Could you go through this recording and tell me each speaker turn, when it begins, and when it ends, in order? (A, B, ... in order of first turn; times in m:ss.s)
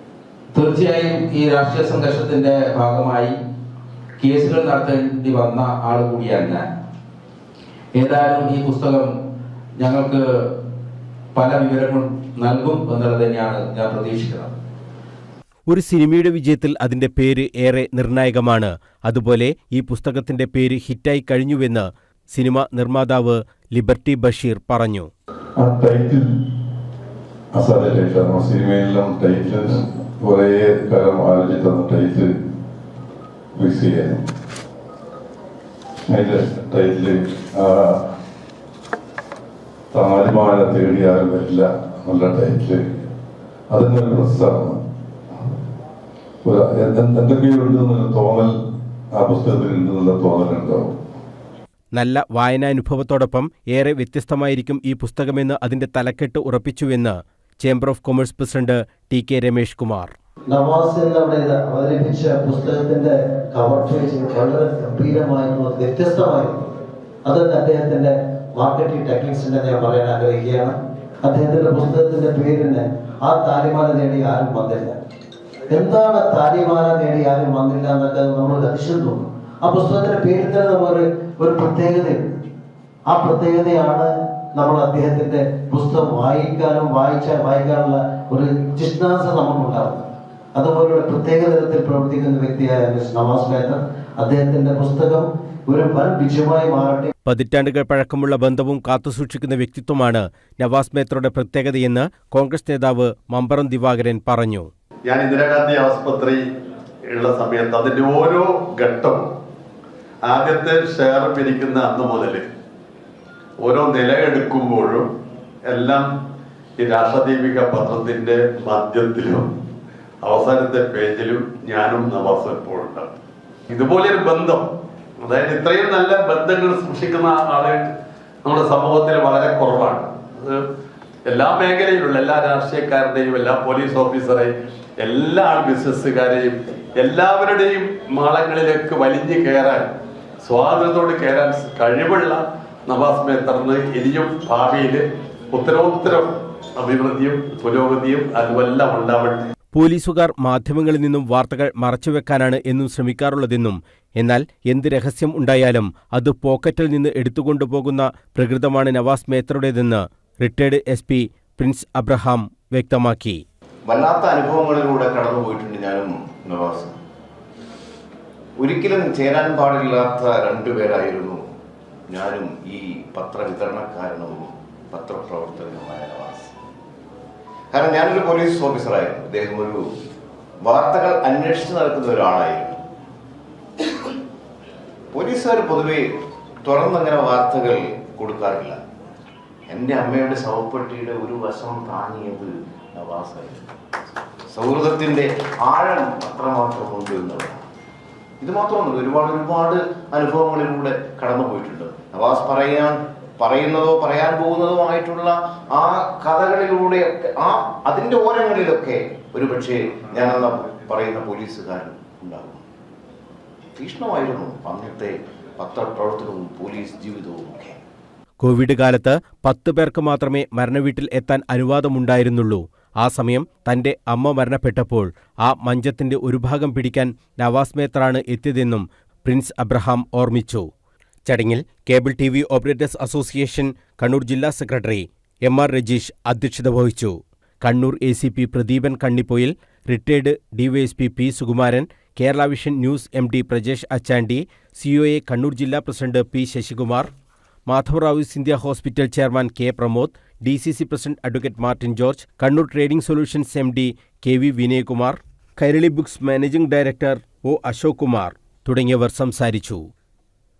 0:00.5-0:03.3 A
0:04.2-0:06.6 A
0:08.0-0:09.0 A
0:09.8-0:10.2 A
0:11.4-0:14.5 A
0:15.7-0:25.1 B
0:25.6-0:26.3 C
0:27.5-0:32.3 C
0:33.6-0:34.2 C
0:36.1-0:38.0 C
0:39.9-0:42.8 C
0:43.7-0:44.8 C
0:46.4-0:48.5 C
0:49.1-0:50.9 C
0:51.9-1:00.1 B
1:00.5-1:06.6 D
1:07.2-1:15.0 D
1:15.7-1:22.4 D
1:23.1-1:30.0 D
1:30.6-1:37.1 D
1:37.2-1:44.7 B
1:45.0-1:46.4 E
1:47.1-1:49.2 E
1:50.2-1:52.4 E
1:53.6-1:55.0 E
1:55.7-1:56.0 E
1:56.8-1:59.4 E
2:00.2-2:03.1 E
2:03.7-2:04.6 E
2:05.2-2:07.8 E
2:08.4-2:10.6 E
2:11.3-2:14.5 E
2:15.0-2:19.8 E
2:20.4-2:29.4 E
2:29.7-2:43.4 B
2:43.8-2:46.9 F
2:48.6-2:51.4 F
2:52.1-2:56.5 F
2:57.7-2:59.9 F
3:00.6-3:02.8 F
3:05.1-3:06.1 F
3:06.6-3:08.8 F
3:09.7-3:13.7 F
3:14.5-3:17.6 F
3:18.4-3:32.6 F
3:33.8-3:37.8 F
3:38.4-3:50.6 B
3:51.2-4:07.1 B
4:07.7-4:19.8 B